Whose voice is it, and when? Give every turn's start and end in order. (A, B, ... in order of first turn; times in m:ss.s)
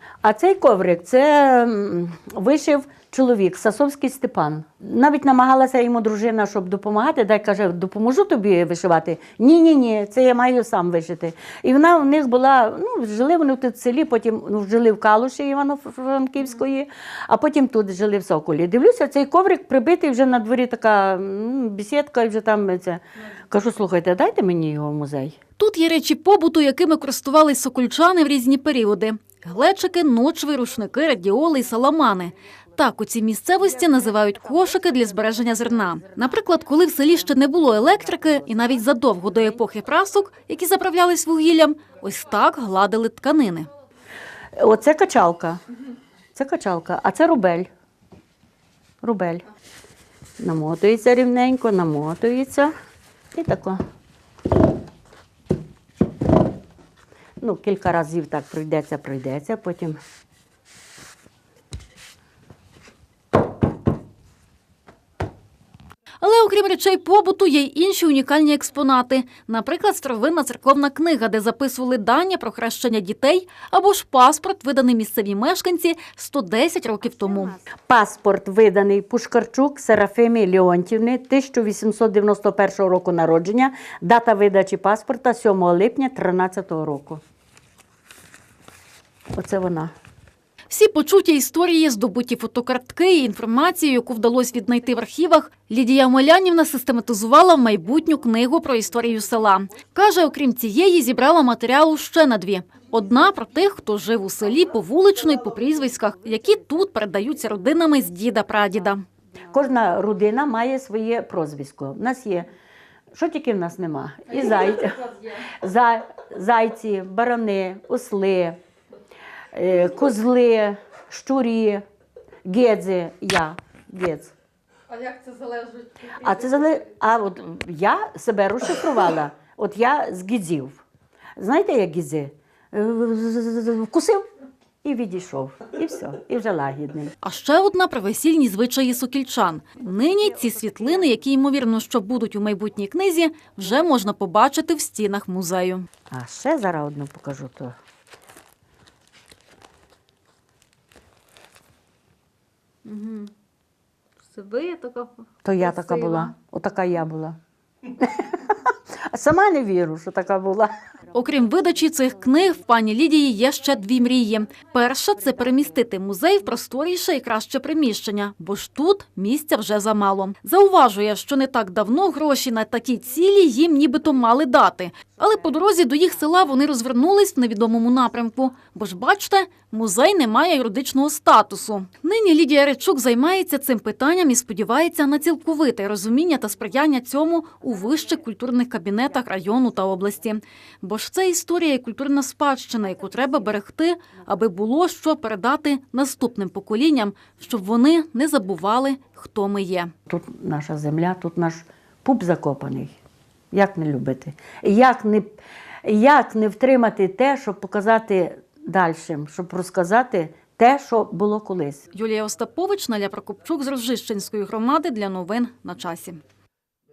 0:00.2-0:25.4 A
0:25.6-0:43.7 B
0:44.5-0:45.6 A
0:46.4-0:47.7 A
0:49.0-0:49.4 A
0:50.4-0:52.7 A
0:53.3-0:53.8 A
0:57.4-1:00.0 A
1:06.2-1:17.6 B
1:17.5-1:27.2 A
1:29.3-1:29.9 A
1:30.7-1:49.0 B
1:49.5-1:52.5 A
1:53.1-1:55.1 A
1:55.6-1:58.6 A
1:59.5-2:01.8 A
2:02.4-2:04.3 A
2:06.2-2:10.8 A
2:11.4-2:14.2 A
2:14.8-2:17.1 A
2:17.2-2:25.9 B
2:26.1-2:27.7 A
2:34.4-2:35.1 B
2:35.4-2:37.4 A
2:35.8-2:36.2 B
2:38.0-2:40.7 A
2:41.1-3:19.9 B
3:20.1-3:23.0 A
3:23.5-3:31.8 A
3:31.9-3:36.2 B